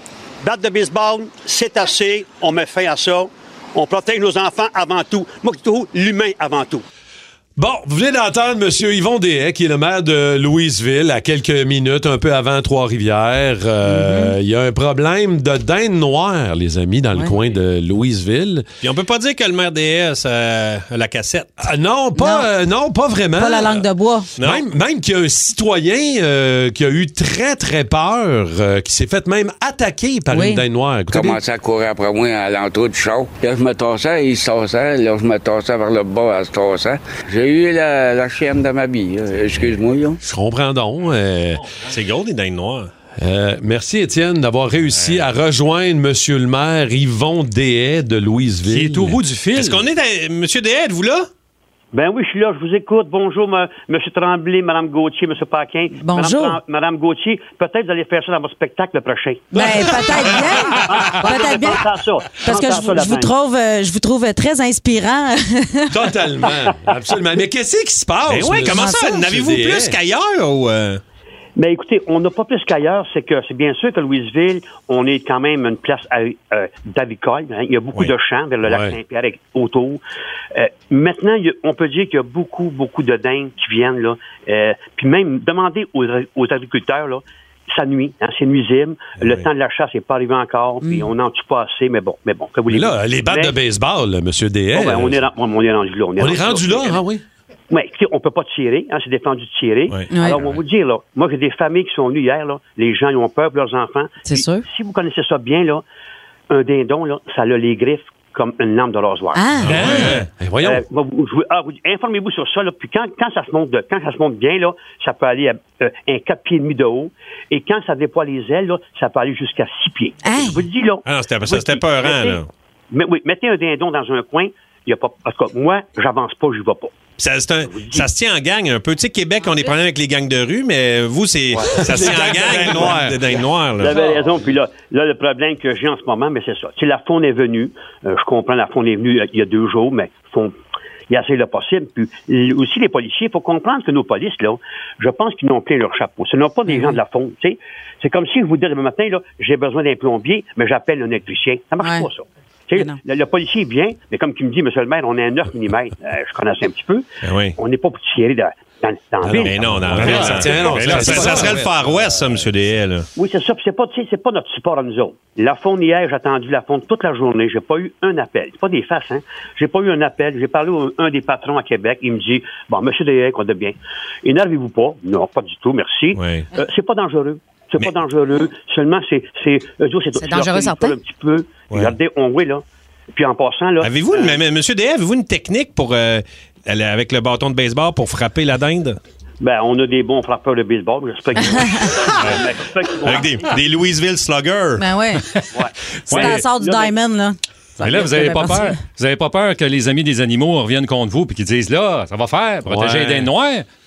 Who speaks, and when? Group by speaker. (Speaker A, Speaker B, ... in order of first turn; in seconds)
Speaker A: 0.4-6.8, 51.9-59.5, 60.1-63.3, 71.6-80.0, 80.5-93.6, 94.7-97.0, 97.7-105.8, 106.5-122.4, 122.9-126.9, 127.6-128.1, 133.8-140.5, 141.1-157.1, 157.6-161.4, 163.2-184.4, 189.4-193.4, 195.5-197.0
Speaker B: 7.6-18.7, 21.6-23.8, 24.4-31.4, 40.2-41.6, 43.2-49.2, 59.5-60.5, 65.9-70.0, 78.7-79.0, 92.7-95.2, 96.2-97.2, 110.4-110.8, 131.8-133.2, 159.2-161.8, 202.7-203.3
Speaker C: 13.9-14.3, 22.2-22.5, 23.4-24.3, 30.3-30.6, 56.0-56.6, 59.5-61.8, 62.4-66.1, 68.7-69.2, 90.8-91.1, 100.1-100.4, 104.2-104.6, 109.3-109.8, 120.2-120.7, 146.7-147.0, 151.8-152.1, 152.8-153.0, 180.2-180.9, 191.5-191.9, 194.8-195.3, 196.1-198.8
Speaker D: 18.8-21.7, 23.7-24.6, 41.8-42.9, 45.0-45.3, 49.5-51.3, 68.3-71.0, 89.2-89.4, 109.6-110.2, 121.0-122.5, 127.2-134.0, 157.2-157.6, 159.4-163.1, 176.2-176.5, 181.7-181.9, 183.8-189.0, 193.0-194.9
Speaker E: 31.1-40.2
Speaker F: 48.7-49.8, 109.7-110.3, 159.9-161.6, 196.1-196.5, 197.8-203.7